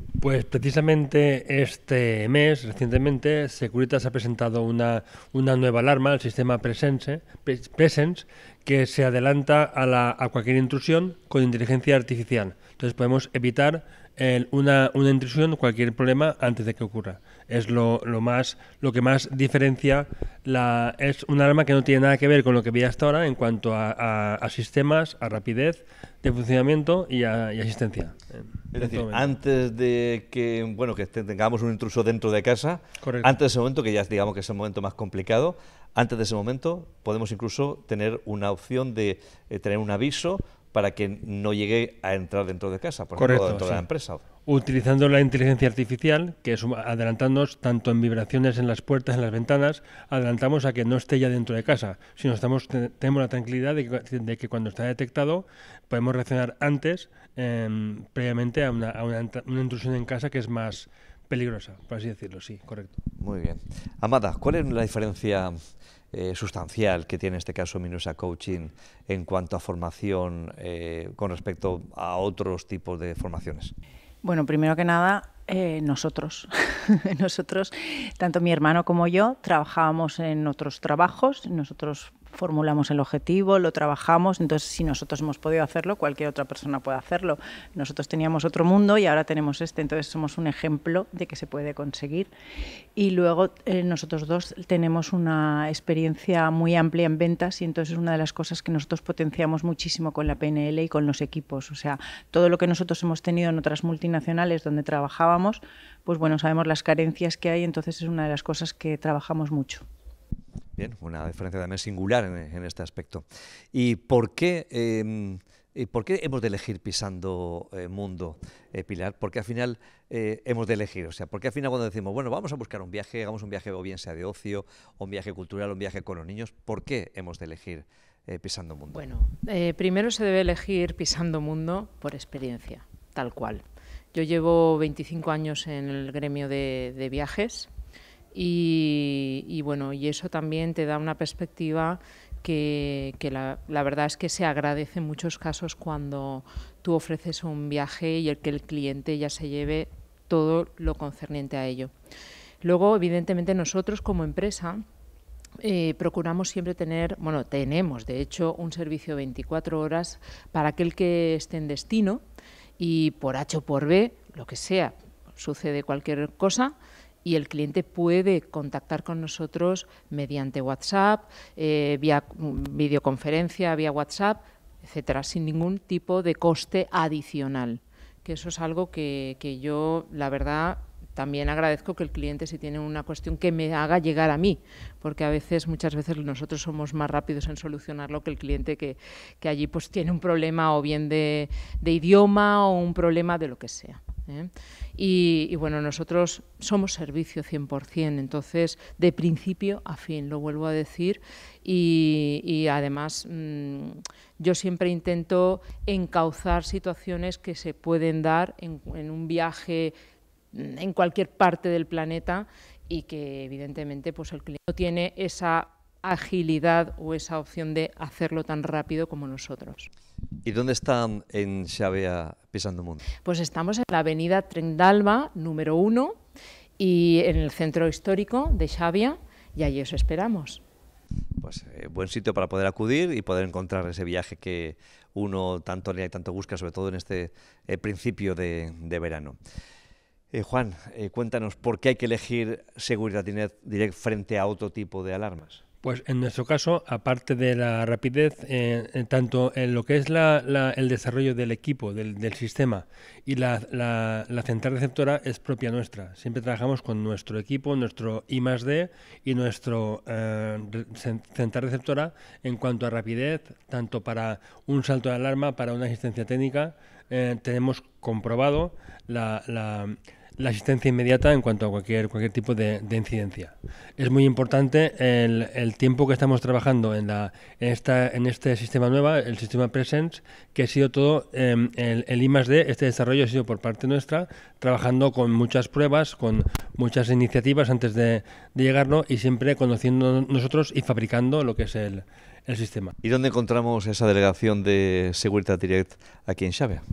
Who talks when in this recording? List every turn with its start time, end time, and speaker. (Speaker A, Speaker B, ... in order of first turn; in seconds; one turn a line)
Speaker A: 0.2-29.3
Speaker B: 28.7-44.2
Speaker A: 33.0-33.3
Speaker A: 43.2-43.8
Speaker A: 44.5-62.9
Speaker B: 63.2-65.6
Speaker B: 66.1-73.7
Speaker C: 74.2-92.3
Speaker C: 93.0-109.8
Speaker B: 110.8-129.0
Speaker D: 128.9-137.7
Speaker D: 138.3-151.9
Speaker D: 152.6-154.8
Speaker D: 155.6-162.2
Speaker D: 162.8-209.9
Speaker D: 210.5-219.9
Speaker B: 220.4-223.0
Speaker D: 223.2-226.2
Speaker D: 226.8-230.6
Speaker B: 231.4-239.4
Speaker B: 240.3-245.6
Speaker A: 245.8-292.9
Speaker B: 293.0-296.9